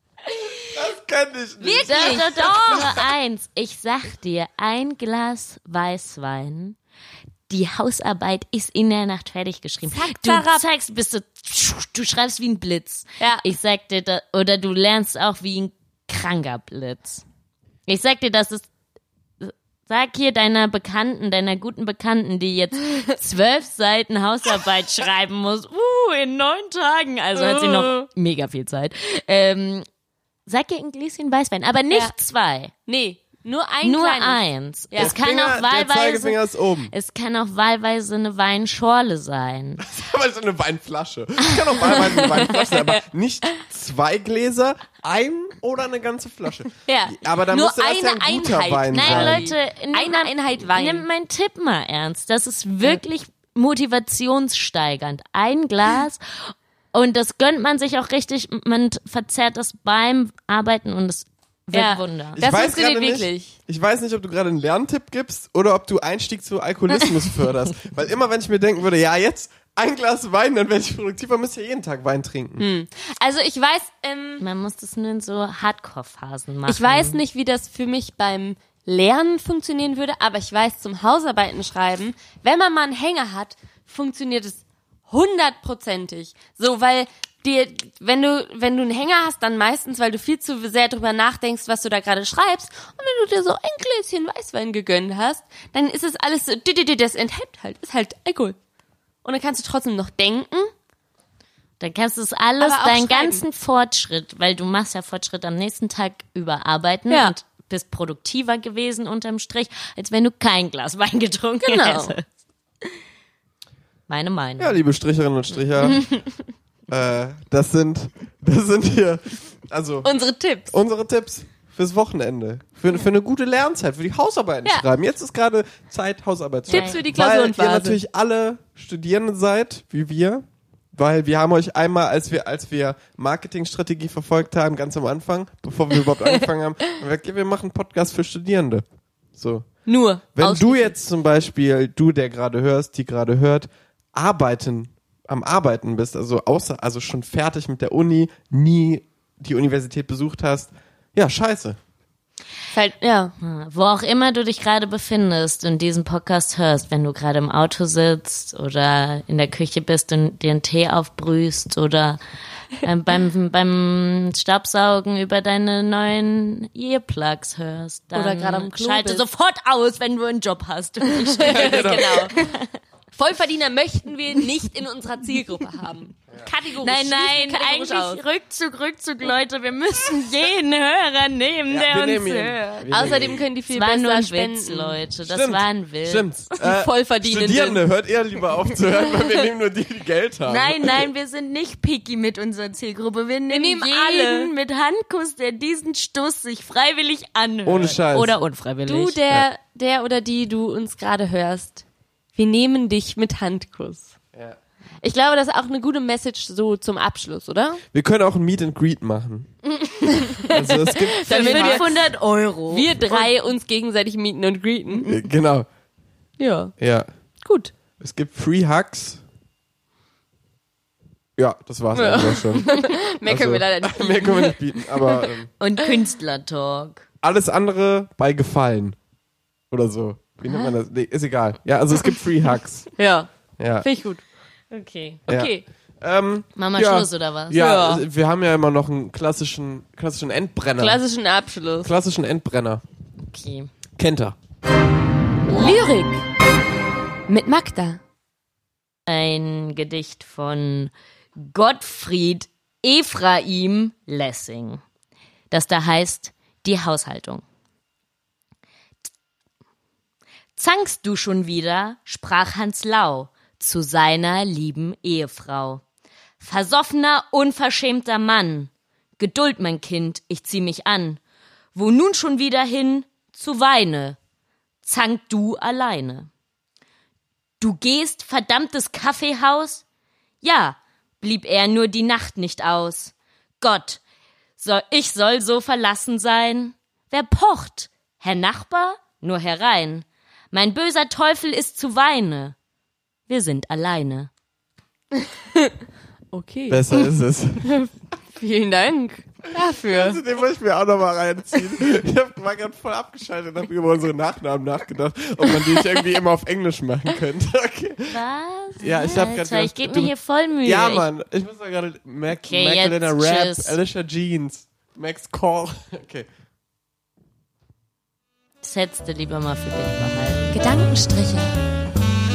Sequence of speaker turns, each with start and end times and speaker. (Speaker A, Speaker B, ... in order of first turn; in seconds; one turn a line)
Speaker A: 0.6-2.9
Speaker B: 1.6-3.0
Speaker C: 1.9-6.8
Speaker C: 7.5-17.2
Speaker B: 9.9-10.7
Speaker C: 17.9-18.7
Speaker C: 19.4-29.9
Speaker B: 27.4-28.1
Speaker C: 30.5-32.7
Speaker B: 32.9-35.1
Speaker C: 33.8-36.4
Speaker A: 35.0-36.9
Speaker C: 36.9-39.8
Speaker A: 39.8-49.5
Speaker B: 41.9-43.0
Speaker B: 46.9-51.1
Speaker C: 48.9-62.4
Speaker B: 61.7-63.5
Speaker A: 62.4-72.7
Speaker B: 72.6-74.4
Speaker C: 74.4-77.2
Speaker B: 76.7-98.6
Speaker B: 99.2-100.7
Speaker C: 101.8-112.2
Speaker B: 102.6-103.4
Speaker B: 107.1-107.3
Speaker B: 111.6-112.2
Speaker C: 114.1-114.8
Speaker A: 114.6-116.1
Speaker A: 116.9-120.1
Speaker B: 120.0-120.8
Speaker A: 120.7-139.8
Speaker B: 126.7-128.0
Speaker C: 126.7-127.0
Speaker B: 139.9-140.9
Speaker A: 140.3-151.8
Speaker B: 152.7-153.3
Speaker C: 153.4-162.2
Speaker C: 162.8-172.7
Speaker B: 168.1-169.2
Speaker B: 171.3-172.4
Speaker A: 171.4-172.3
Speaker B: 173.1-178.2
Speaker C: 176.8-186.3
Speaker A: 181.7-183.4
Speaker B: 182.9-185.0
Speaker A: 185.2-191.1
Speaker B: 186.6-187.8
Speaker C: 190.5-199.2
Speaker B: 193.5-194.5
Speaker A: 197.7-198.3
Speaker B: 198.9-201.8
Speaker B: 202.3-204.1
Speaker B: 205.0-207.8
Speaker A: 207.9-209.5
Speaker B: 210.0-212.0
Speaker A: 210.5-211.9
Speaker C: 211.1-213.4
Speaker B: 212.7-215.1
Speaker A: 215.1-215.7
Speaker B: 216.4-216.7
Speaker A: 216.8-217.1
Speaker B: 217.4-217.7
Speaker A: 218.0-219.2
Speaker A: 221.4-225.5
Speaker B: 221.9-225.3
Speaker C: 225.6-227.1
Speaker A: 227.2-229.0
Speaker A: 229.7-232.9
Speaker B: 230.5-230.7
Speaker B: 233.0-233.3
Speaker A: 233.6-233.9
Speaker B: 233.8-234.2
Speaker C: 234.7-235.2
Speaker B: 235.3-235.6
Speaker A: 235.3-241.0
Speaker C: 236.6-237.6
Speaker B: 237.6-238.0
Speaker B: 240.8-241.9
Speaker A: 241.8-242.8
Speaker C: 243.3-243.7
Speaker A: 244.0-244.4
Speaker B: 245.5-246.2
Speaker B: 247.3-248.0
Speaker C: 249.1-254.8
Speaker C: 255.5-257.4
Speaker C: 260.6-265.8
Speaker C: 266.4-271.2
Speaker C: 271.7-274.2
Speaker C: 274.8-276.3
Speaker C: 277.6-279.8
Speaker C: 280.4-284.0
Speaker C: 284.6-292.6
Speaker C: 293.3-294.3
Speaker B: 296.3-297.1
Speaker A: 296.7-297.7
Speaker B: 297.6-300.2
Speaker A: 299.9-308.2
Speaker C: 308.1-311.1
Speaker A: 308.8-316.3
Speaker C: 312.4-313.8
Speaker C: 318.6-320.6
Speaker B: 320.5-321.6